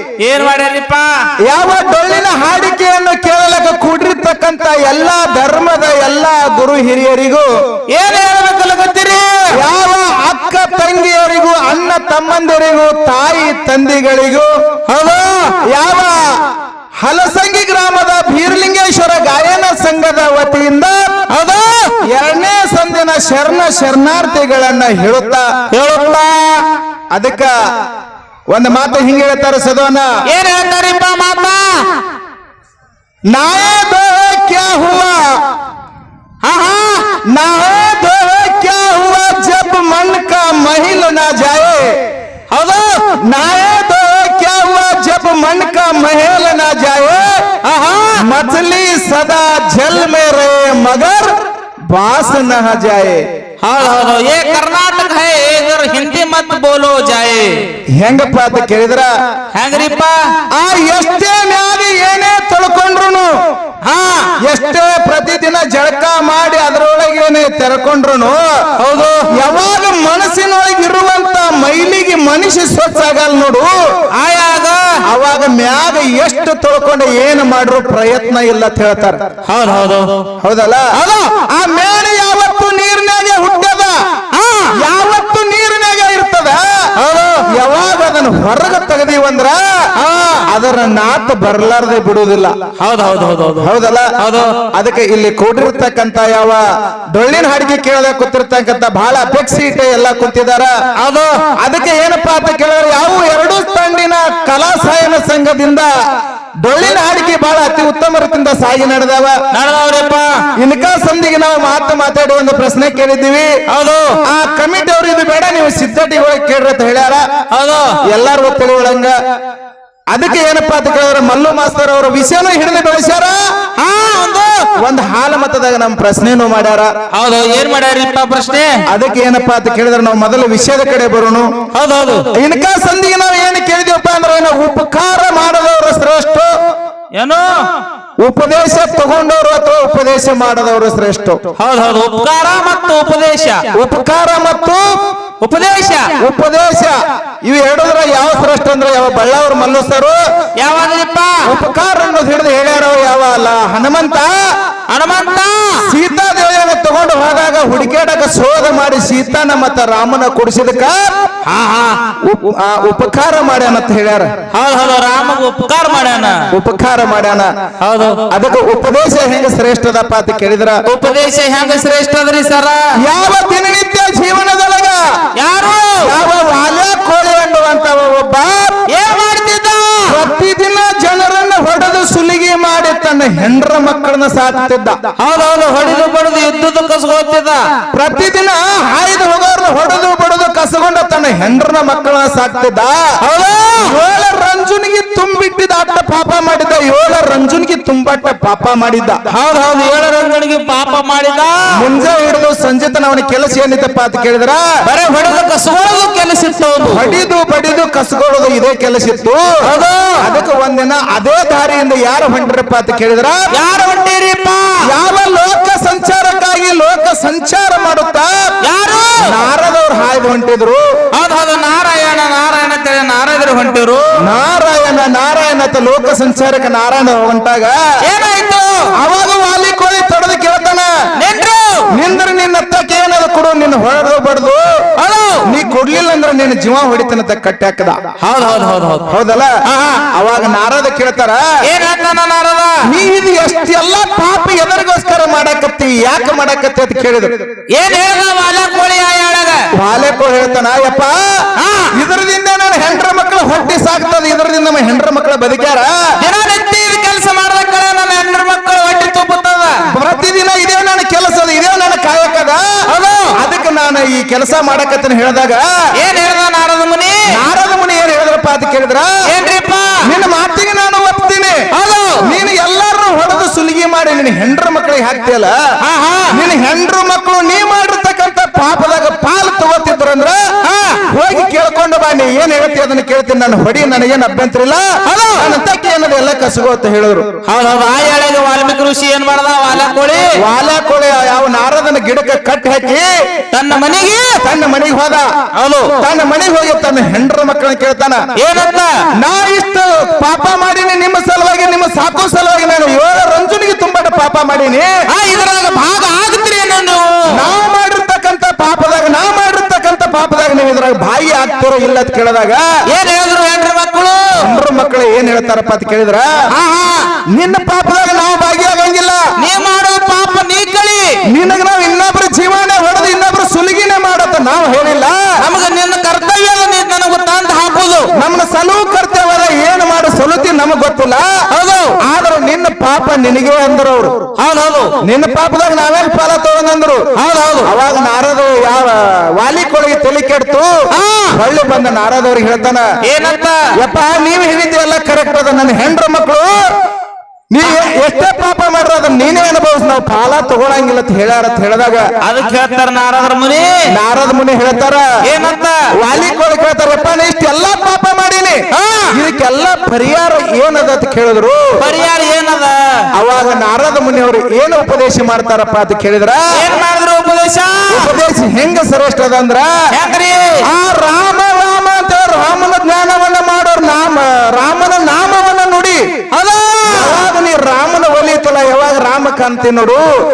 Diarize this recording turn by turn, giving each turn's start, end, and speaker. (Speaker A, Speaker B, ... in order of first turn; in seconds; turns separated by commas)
Speaker A: 0.2-1.2, Speaker B: 1.4-7.5, Speaker A: 7.9-9.6, Speaker B: 9.5-14.5, Speaker A: 14.9-15.6, Speaker B: 15.6-16.4, Speaker B: 17.0-21.1, Speaker A: 21.3-22.0, Speaker B: 22.0-25.5, Speaker A: 25.7-26.7, Speaker B: 27.1-27.5, Speaker B: 28.5-30.1, Speaker A: 30.2-32.0, Speaker B: 33.3-35.4, Speaker A: 36.4-37.1, Speaker B: 37.3-42.0, Speaker A: 42.5-43.1, Speaker B: 43.2-47.4, Speaker A: 47.6-48.3, Speaker B: 48.1-51.4, Speaker B: 51.9-53.2, Speaker A: 53.6-57.7, Speaker B: 57.9-59.1, Speaker A: 59.5-60.3, Speaker B: 60.5-63.3, Speaker A: 63.8-64.3, Speaker B: 64.4-68.4, Speaker A: 68.8-69.3, Speaker B: 69.3-73.8, Speaker A: 74.1-75.0, Speaker B: 75.1-79.2, Speaker A: 79.5-80.3, Speaker B: 80.4-84.0, Speaker A: 80.9-81.3, Speaker A: 84.3-84.8, Speaker B: 84.7-86.8, Speaker A: 87.0-87.5, Speaker B: 87.5-89.8, Speaker A: 90.0-90.5, Speaker B: 90.5-92.5, Speaker A: 92.8-94.7, Speaker B: 93.6-94.1, Speaker B: 94.7-100.7, Speaker A: 101.0-101.4, Speaker B: 101.6-105.9, Speaker B: 106.6-109.4, Speaker A: 109.5-110.4, Speaker B: 110.5-113.6, Speaker A: 113.7-114.2, Speaker B: 114.2-117.2, Speaker A: 117.5-118.0, Speaker B: 118.1-119.1, Speaker B: 120.1-123.4, Speaker A: 123.8-124.7, Speaker B: 124.8-126.9, Speaker A: 127.1-128.8, Speaker B: 128.9-131.5, Speaker A: 131.7-132.3, Speaker B: 132.3-136.5, Speaker A: 137.2-137.5, Speaker B: 138.2-141.4, Speaker A: 141.6-143.7, Speaker B: 143.7-144.8, Speaker A: 145.4-146.2, Speaker B: 146.2-150.2, Speaker A: 150.6-151.5, Speaker B: 151.4-154.4, Speaker A: 154.9-155.9, Speaker B: 155.8-161.1, Speaker A: 161.4-162.1, Speaker B: 162.2-164.3, Speaker A: 164.5-166.4, Speaker B: 166.5-167.5, Speaker A: 167.8-168.2, Speaker B: 168.3-170.8, Speaker A: 170.8-172.9, Speaker B: 173.0-175.0, Speaker A: 175.3-176.1, Speaker B: 176.0-178.8, Speaker A: 178.9-180.2, Speaker B: 180.1-185.0, Speaker A: 185.2-187.6, Speaker B: 187.9-193.0, Speaker A: 193.2-194.0, Speaker B: 193.8-199.2, Speaker A: 199.3-201.7, Speaker B: 201.7-204.6, Speaker A: 204.8-207.2, Speaker B: 206.9-209.6, Speaker A: 209.6-210.2, Speaker B: 210.2-213.5, Speaker A: 213.5-214.9, Speaker B: 214.8-218.3, Speaker A: 218.6-219.4, Speaker B: 219.2-220.8, Speaker A: 221.1-224.2, Speaker B: 224.2-227.8, Speaker A: 228.0-228.9, Speaker B: 228.9-230.9, Speaker A: 231.2-231.9, Speaker B: 231.9-234.8, Speaker A: 235.0-235.5, Speaker B: 235.4-238.0, Speaker A: 238.2-239.1, Speaker B: 239.1-239.5, Speaker A: 239.6-240.0, Speaker B: 240.1-241.4, Speaker A: 241.7-242.9, Speaker B: 242.8-247.3, Speaker A: 247.7-249.7, Speaker B: 249.7-251.3, Speaker A: 251.6-251.9, Speaker B: 251.9-255.9, Speaker A: 256.2-259.8, Speaker B: 259.9-262.7, Speaker A: 262.9-263.4, Speaker B: 263.3-265.7, Speaker A: 266.0-267.3, Speaker B: 267.3-269.1, Speaker A: 269.3-270.1, Speaker B: 270.0-271.6, Speaker A: 271.7-272.3, Speaker B: 272.2-275.6, Speaker A: 275.8-276.4, Speaker B: 276.3-280.4, Speaker A: 280.6-281.0, Speaker B: 281.1-287.3, Speaker A: 285.0-285.6, Speaker A: 287.4-290.4, Speaker B: 290.3-293.1, Speaker A: 293.5-294.4, Speaker B: 294.4-295.3, Speaker A: 295.5-296.0, Speaker B: 296.0-298.2, Speaker A: 298.4-298.9, Speaker B: 299.2-304.9, Speaker A: 305.1-307.3, Speaker B: 307.3-312.6, Speaker A: 312.9-314.5, Speaker B: 314.4-316.3, Speaker A: 316.5-317.1, Speaker B: 317.3-319.2, Speaker A: 319.4-321.2, Speaker B: 321.2-325.2, Speaker A: 325.4-328.1, Speaker B: 328.1-331.3, Speaker A: 331.5-332.0, Speaker B: 332.0-334.1, Speaker A: 334.4-335.0, Speaker B: 335.0-337.0, Speaker A: 337.1-337.7, Speaker B: 337.6-340.8, Speaker A: 340.9-341.4, Speaker B: 341.3-342.8, Speaker A: 343.0-343.6, Speaker B: 343.8-346.7, Speaker B: 347.5-352.1, Speaker A: 352.2-353.9, Speaker B: 353.9-355.1, Speaker A: 355.2-355.8, Speaker B: 356.0-361.8, Speaker A: 358.7-359.2, Speaker A: 361.8-363.1, Speaker B: 363.1-366.4, Speaker A: 366.5-368.2, Speaker B: 367.9-369.7, Speaker A: 369.9-370.6, Speaker B: 370.6-376.0, Speaker A: 376.3-377.2, Speaker B: 376.8-380.1